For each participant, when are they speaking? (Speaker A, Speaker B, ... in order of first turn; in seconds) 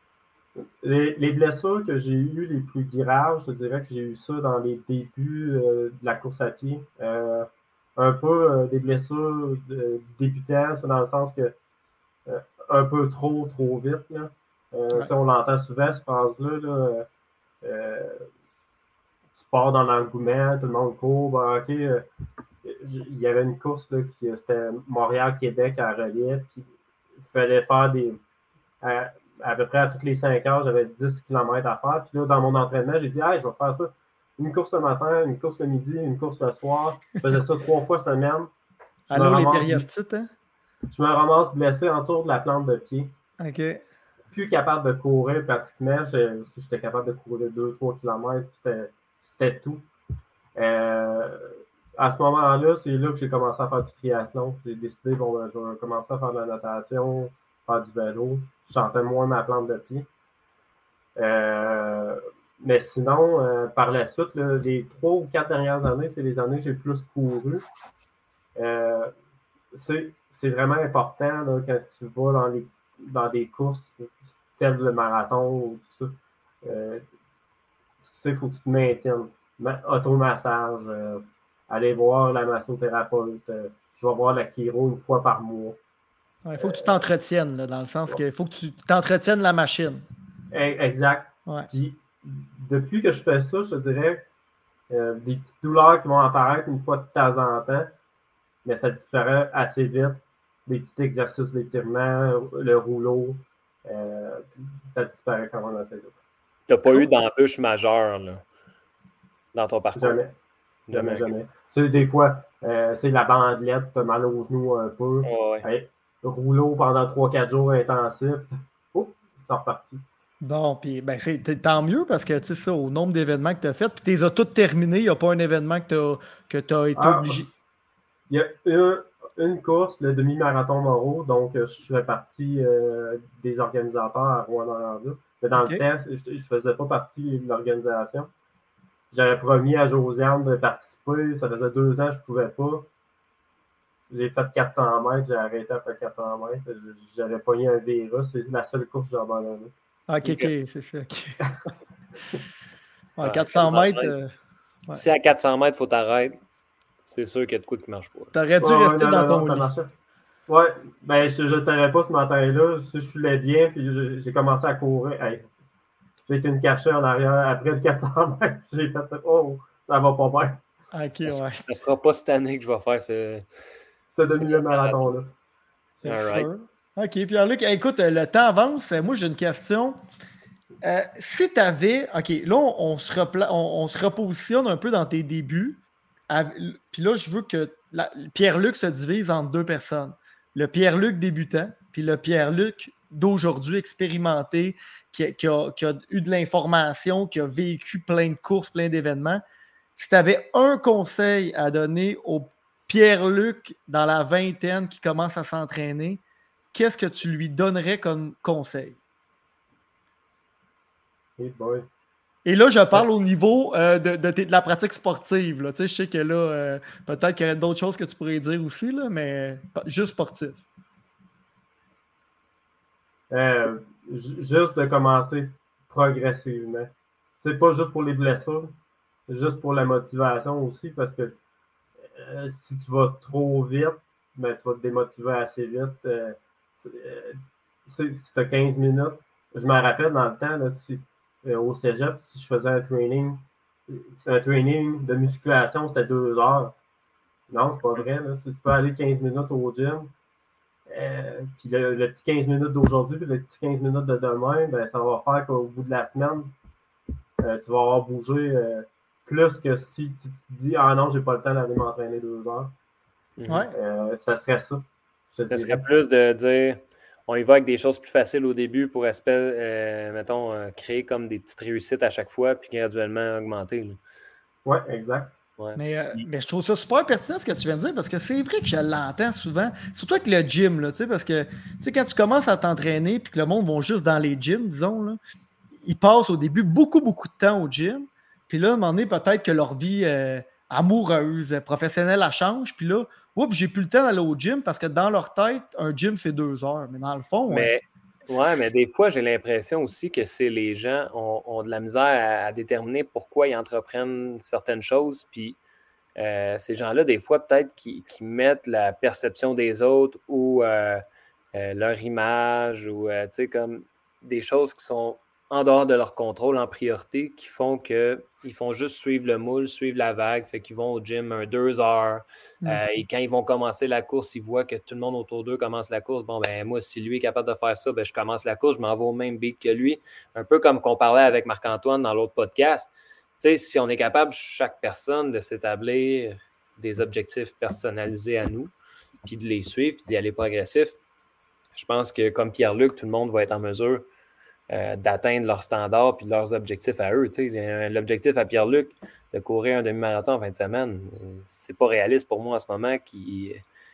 Speaker A: 0.8-11.5, 12.2-17.1, 17.6-18.3, 19.3-22.1, 22.6-26.6, 27.2-28.2, 28.8-38.5, 39.1-39.9, 40.9-43.1, 44.3-49.9, 50.5-60.1, 61.1-67.6, 68.5-69.1, 69.7-77.0, 78.0-85.8, 86.6-87.0, 90.5-94.2, 94.9-97.9, 98.6-106.2, 109.9-110.3, 110.9-120.0, 127.0-127.4, 128.3-138.3, 139.1-142.9, 144.1-149.7, 158.6-159.9, 160.5-165.5, 166.2-170.6, 174.1-175.3, 211.4-211.8, 223.3-228.7, 229.3-231.4, 232.0-246.8, 247.5-250.1, 250.9-256.5, 257.4-262.7, 263.7-265.8, 274.6-275.3
Speaker B: 39.1-40.3, 43.4-43.8, 86.5-90.0, 120.4-127.5, 135.5-135.8, 150.1-151.4, 153.2-154.3, 158.3-159.7, 170.9-171.6, 176.0-180.0, 180.8-199.4, 199.9-206.2, 206.7-209.0, 212.4-220.6, 263.5-263.7, 275.8-285.2, 285.8-297.7
Speaker C: 106.7-108.4, 109.5-110.2, 110.9-111.2, 115.2-115.6, 150.2-150.5, 153.2-154.1, 154.9-156.4, 157.1-158.3, 171.2-173.4, 174.3-175.0, 176.0-176.5, 263.4-263.6, 265.5-274.0, 275.6-276.2, 297.5-305.6, 306.1-311.0, 311.5-338.7, 339.2-341.0, 341.7-344.1, 344.7-353.6